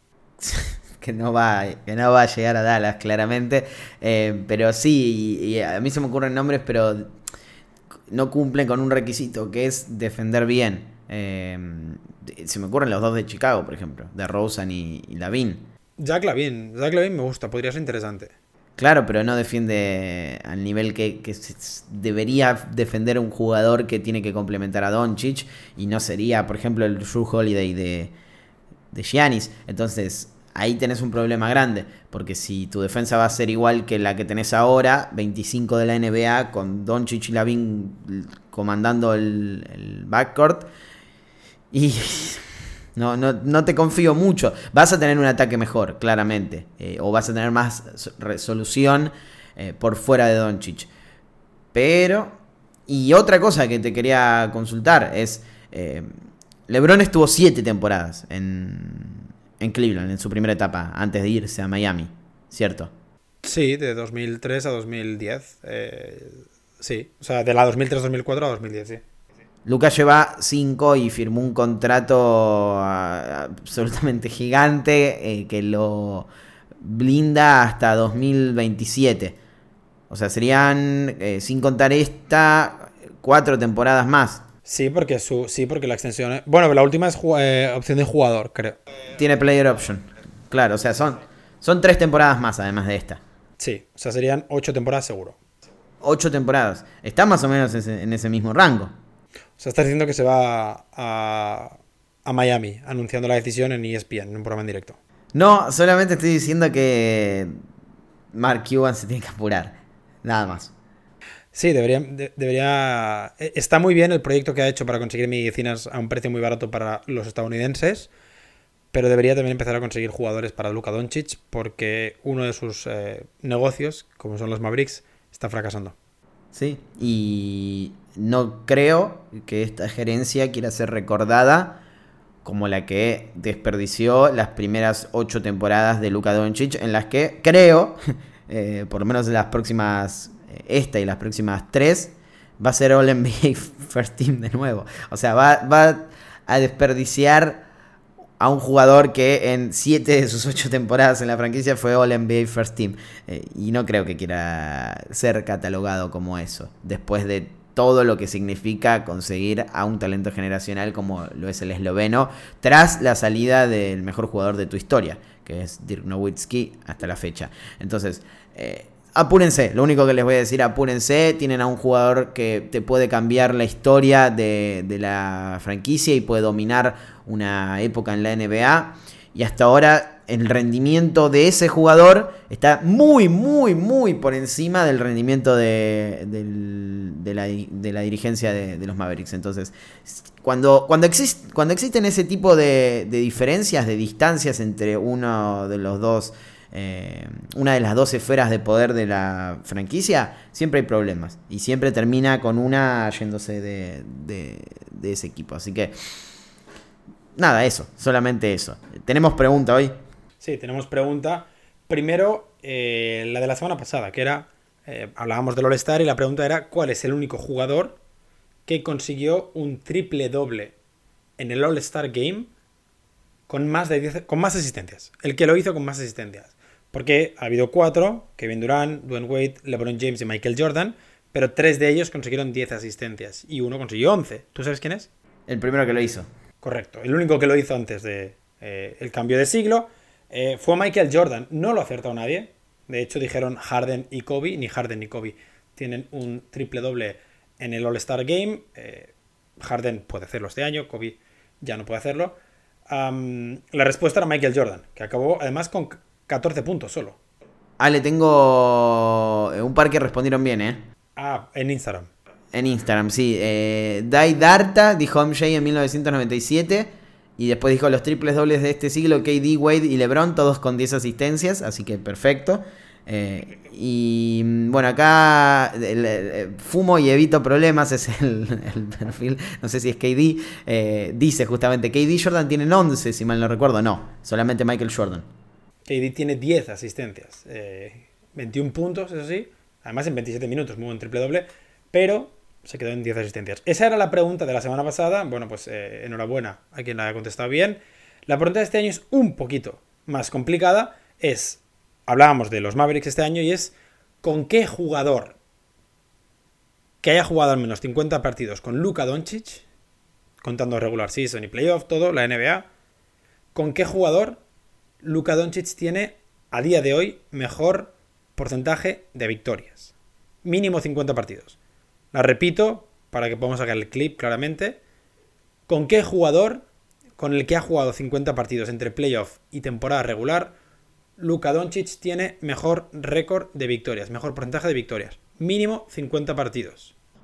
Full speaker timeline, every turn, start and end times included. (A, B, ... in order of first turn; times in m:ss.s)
0:00.4-0:07.1 A
0:08.1-0:15.6 A
0:16.0-0:18.3 B
0:18.8-0:28.1 A
0:28.9-0:40.7 A
0:41.7-0:50.9 A
0:51.7-0:52.4 A
0:52.9-0:56.1 A
0:56.7-1:02.9 A
1:03.4-1:09.0 B
1:09.6-1:16.3 A
1:16.8-1:19.4 A
1:20.1-1:24.4 A
1:24.6-1:28.8 B
1:29.1-1:33.2 A
1:33.6-1:35.4 B
1:36.0-1:38.9 A
1:39.6-1:45.0 B
1:45.3-1:47.5 A
1:48.3-1:50.7 A
1:51.5-1:58.1 B
1:58.9-2:05.9 B
2:06.5-2:11.8 A
2:12.4-2:27.6 A
2:28.4-3:26.2 A
3:27.4-3:29.9 A
3:30.4-3:38.0 B
3:38.6-3:40.7 B
3:41.4-3:42.5 B
3:43.5-3:55.1 B
3:55.5-3:56.2 A
3:56.6-4:12.4 B
4:12.9-4:17.2 B
4:17.8-4:20.8 A
4:21.2-4:22.1 B
4:22.5-4:45.3 A
4:45.8-5:05.4 B
5:07.0-5:09.6 B
5:10.4-5:12.6 B
5:13.5-5:14.4 B
5:15.0-5:19.9 B
5:20.4-5:21.6 B
5:22.1-5:24.8 B
5:25.7-5:26.6 B
5:27.2-5:30.5 B
5:31.2-5:36.9 B